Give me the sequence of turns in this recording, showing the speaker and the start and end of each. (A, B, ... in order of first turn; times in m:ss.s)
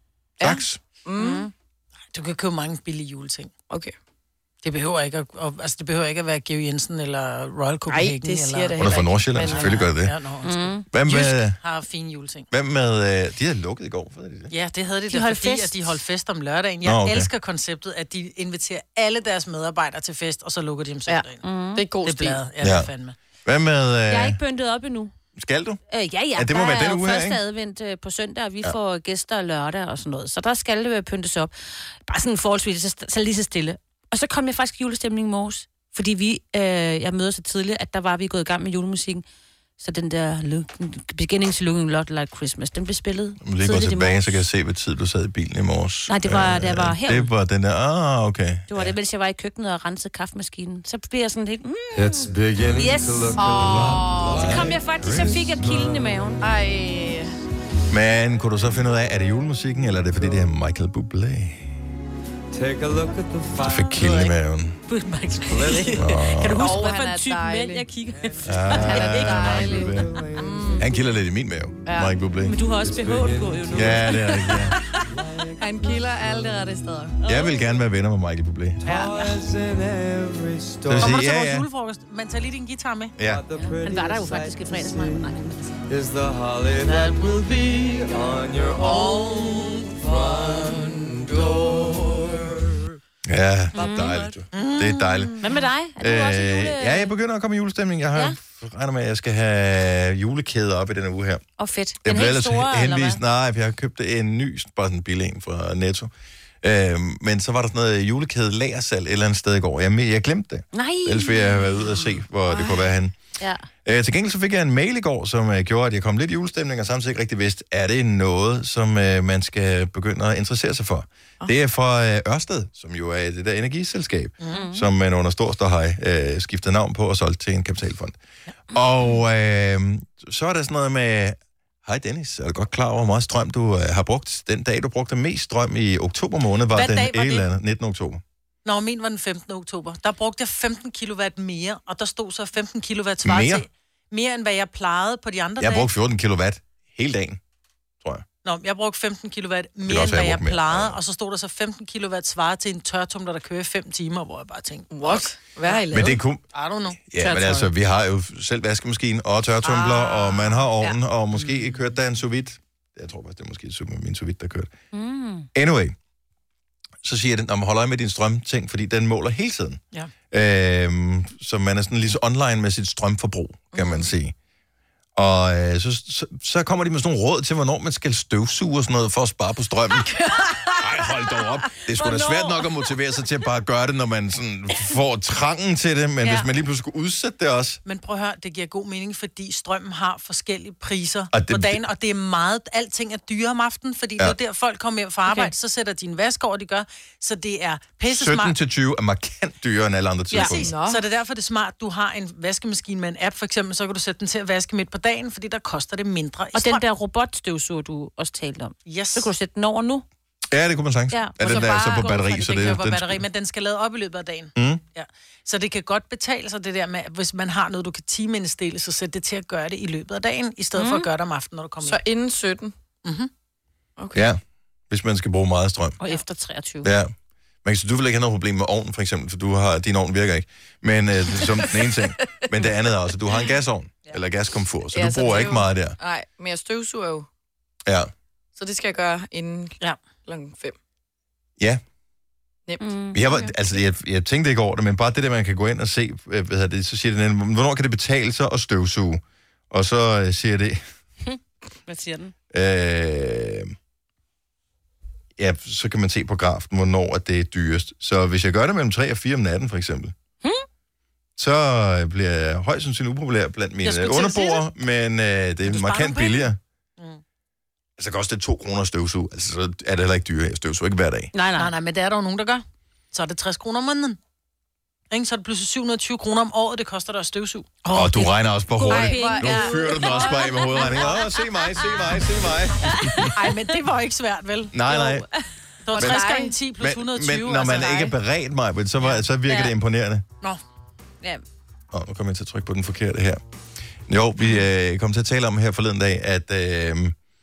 0:00.4-0:00.8 A
0:00.4-0:01.5 B
0:01.2-0:01.5 C
0:02.1-0:03.5 D
0:03.7-0:03.9 B
0:04.6-0:12.5 D
0:07.9-0:09.8 B
0:08.8-0:10.1 A
0:10.4-0:10.9 C
0:10.9-0:11.6 A
0:12.5-0:14.5 A
0:14.5-0:21.4 D
0:15.1-0:15.9 C
0:16.8-0:17.3 A
0:21.1-0:22.4 B
0:21.4-0:21.8 C
0:22.0-0:23.1 D
0:22.6-0:22.9 A
0:23.4-0:24.4 A
0:24.1-0:25.1 C
0:25.4-0:25.8 A
0:25.9-0:39.2 C
0:26.3-0:27.4 A
0:39.8-0:44.4 C
0:43.4-0:48.9 A
0:46.1-0:47.3 C
0:48.7-0:56.4 C
0:51.9-0:56.1 E
0:53.3-0:54.7 B
0:53.5-0:55.6 A
0:56.4-0:57.3 B
0:57.9-1:01.7 A
1:02.5-1:04.3 E
1:03.6-1:04.8 A
1:04.9-1:10.0 C
1:05.4-1:06.2 E
1:05.9-1:06.8 A
1:06.5-1:07.9 B
1:08.1-1:10.9 E
1:08.4-1:10.1 A
1:08.7-1:10.9 B
1:10.8-1:12.6 A
1:11.8-1:12.1 B
1:12.4-1:15.0 C
1:12.7-1:16.5 E
1:13.7-1:14.8 A
1:15.6-1:17.2 B
1:17.2-1:17.7 C
1:17.2-1:18.8 A
1:18.8-1:21.3 E
1:18.9-1:19.3 D
1:20.9-1:21.7 A
1:21.0-1:23.1 D
1:23.2-1:23.4 A
1:23.2-1:32.9 E
1:23.6-1:25.8 C
1:33.2-1:35.4 A
1:33.7-1:34.3 C
1:34.5-1:35.4 D
1:35.4-1:37.1 C
1:36.0-1:41.4 A
1:41.6-1:43.2 C
1:42.0-1:46.1 A
1:46.6-1:53.1 A
1:50.7-1:51.8 C
1:52.5-1:52.8 B
1:53.8-2:08.2 A
2:04.4-2:04.6 D
2:04.5-2:04.8 C
2:08.7-2:18.2 A
2:16.7-2:17.5 D
2:18.6-2:25.9 D
2:23.2-2:23.6 A
2:25.6-2:27.4 A
2:28.4-2:35.8 D
2:29.8-2:31.0 A
2:34.9-2:36.2 B
2:35.9-2:36.4 A
2:36.5-2:37.6 D
2:37.1-2:44.7 A
2:44.9-2:45.5 C
2:45.5-2:46.0 A
2:47.0-2:49.8 A
2:50.3-2:54.3 A
2:53.7-2:54.1 B
2:55.2-3:00.1 A
3:00.8-3:07.8 A
3:02.0-3:02.6 C
3:07.8-3:18.6 D
3:11.3-3:11.8 A
3:18.1-3:20.7 A
3:20.3-3:26.8 D
3:20.3-3:21.0 B
3:26.5-3:30.0 C
3:28.8-3:29.3 D
3:30.5-3:33.2 A
3:31.1-3:32.8 C
3:31.5-3:42.0 D
3:34.6-3:34.8 A
3:40.8-3:41.1 C
3:41.8-3:42.7 B
3:43.0-3:43.3 D
3:44.0-3:44.3 B
3:44.1-3:46.0 A
3:46.0-3:46.9 C
3:46.8-3:47.1 A
3:47.6-3:56.0 A
3:54.9-3:57.3 B
3:58.6-4:00.8 B
4:02.7-4:03.5 B
4:02.8-4:03.2 C
4:03.1-4:10.8 A
4:11.2-4:12.3 C
4:12.5-4:13.7 A
4:15.4-4:20.1 A
4:21.4-4:26.6 A
4:23.9-4:24.5 D
4:25.6-4:27.2 D
4:28.0-4:31.3 A
4:31.3-4:31.7 C
4:31.6-4:34.2 D
4:35.1-4:37.9 D
4:37.9-4:42.2 C
4:37.9-4:43.3 A
4:38.9-4:40.8 B
4:42.9-4:43.3 C
4:43.3-4:45.1 D
4:44.7-4:45.3 A
4:45.8-4:48.1 D
4:45.9-4:46.4 C
4:46.0-4:46.2 A
4:46.8-4:50.2 A
4:49.5-4:49.7 C
4:51.9-4:53.4 A
4:54.1-4:57.1 A